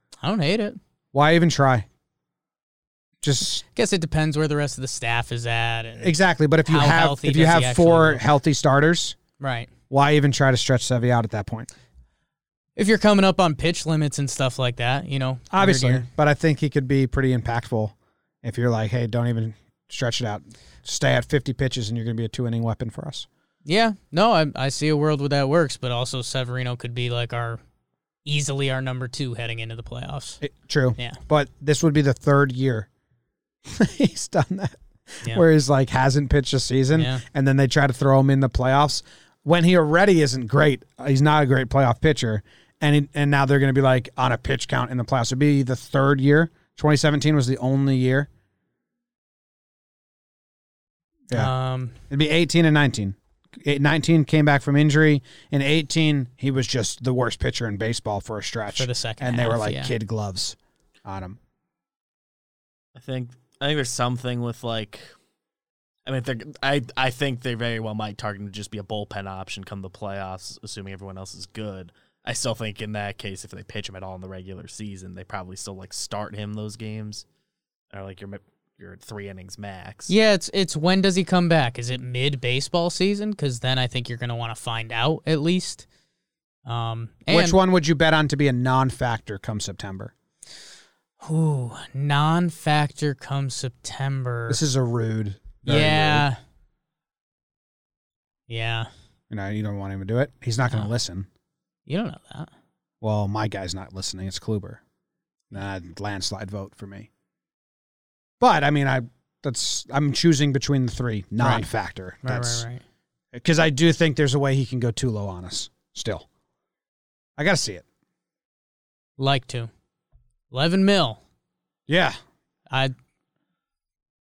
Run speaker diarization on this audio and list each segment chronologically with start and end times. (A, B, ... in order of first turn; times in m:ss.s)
0:00.2-0:00.8 A
0:01.1-0:01.8 B
0:03.2-0:03.6 B
0:03.6-0:06.1 A
0:06.0-0:09.2 B
0:06.6-0:08.2 A
0:09.4-0:09.7 A
0:09.9-0:11.7 B
0:12.8-0:16.0 A
0:15.5-0:23.3 B
0:23.6-0:27.6 A
0:28.2-0:30.4 A
0:30.4-0:32.9 B
0:33.7-0:48.3 B
0:36.9-0:37.2 A
0:51.3-0:51.9 A
0:52.1-1:01.4 B
0:58.7-0:59.9 A
1:02.9-1:05.0 C
1:06.0-1:17.2 C
1:17.9-1:20.1 C
1:20.1-1:25.8 A
1:26.6-1:27.6 A
1:27.3-1:30.1 B
1:31.2-1:34.6 A
1:34.5-1:36.3 B
1:35.6-1:36.4 A
1:38.5-1:38.9 A
1:39.3-1:41.3 B
1:41.9-1:42.5 A
1:43.0-1:44.8 B
1:45.5-1:47.1 B
1:48.4-1:52.7 B
1:51.4-1:51.7 A
1:52.2-1:52.8 A
1:53.3-1:56.2 B
1:57.4-1:57.8 B
1:59.2-1:59.7 A
2:00.5-2:01.2 A
2:01.9-2:02.2 B